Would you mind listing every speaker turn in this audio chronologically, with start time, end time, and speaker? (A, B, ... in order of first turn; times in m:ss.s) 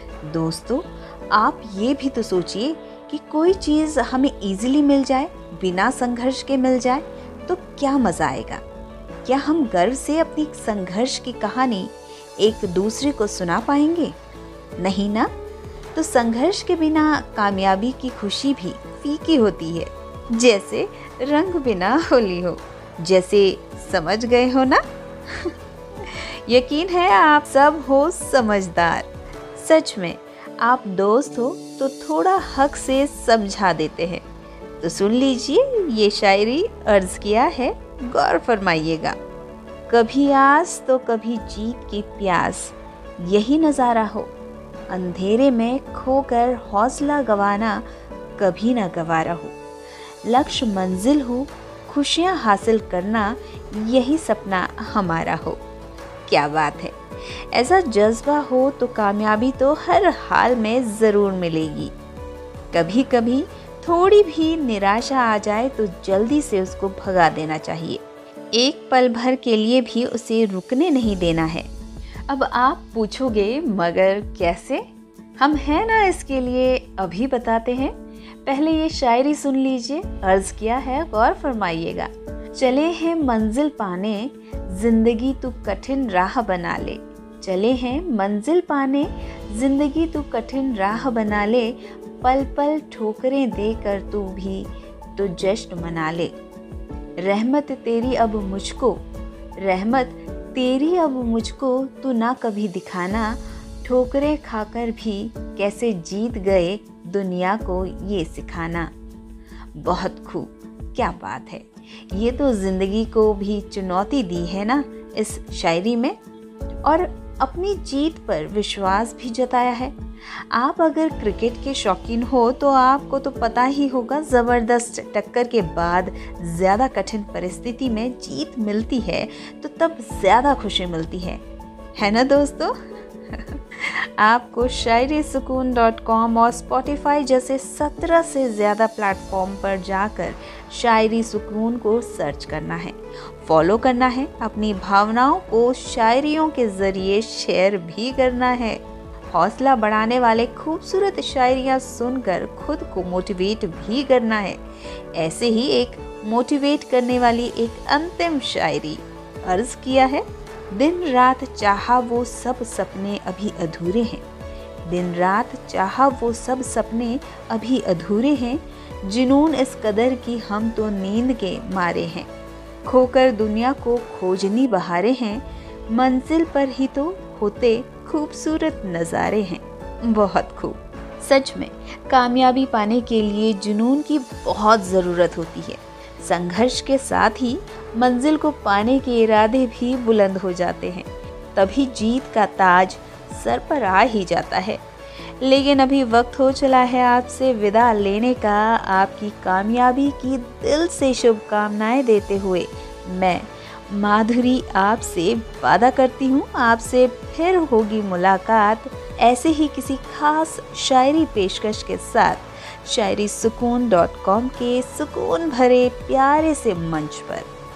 0:00.2-0:08.6 A
0:09.2-0:14.1 A
0:14.8-0:15.3 A
0:15.9-0:25.5 A
0:26.0-0:34.2 A
0:34.8-0:39.2 A
0:39.9-0:44.3 A
0:44.9-0:47.8 A
0:48.4-0:49.5 A
0:50.2-0:55.6 A
0:56.3-1:01.9 A
1:02.7-1:08.0 A
1:08.5-1:11.7 A
1:12.3-1:14.8 A
1:15.4-1:17.9 A
1:18.4-1:36.3 A
1:37.2-1:39.0 A
1:39.6-1:48.9 A
1:49.8-1:56.2 A
1:56.8-1:59.9 A
2:00.5-2:11.4 A
2:12.0-2:12.7 A
2:13.3-2:34.6 A
2:35.1-2:44.2 A
2:44.8-2:52.3 A
2:52.8-3:14.8 A
3:15.4-3:37.5 A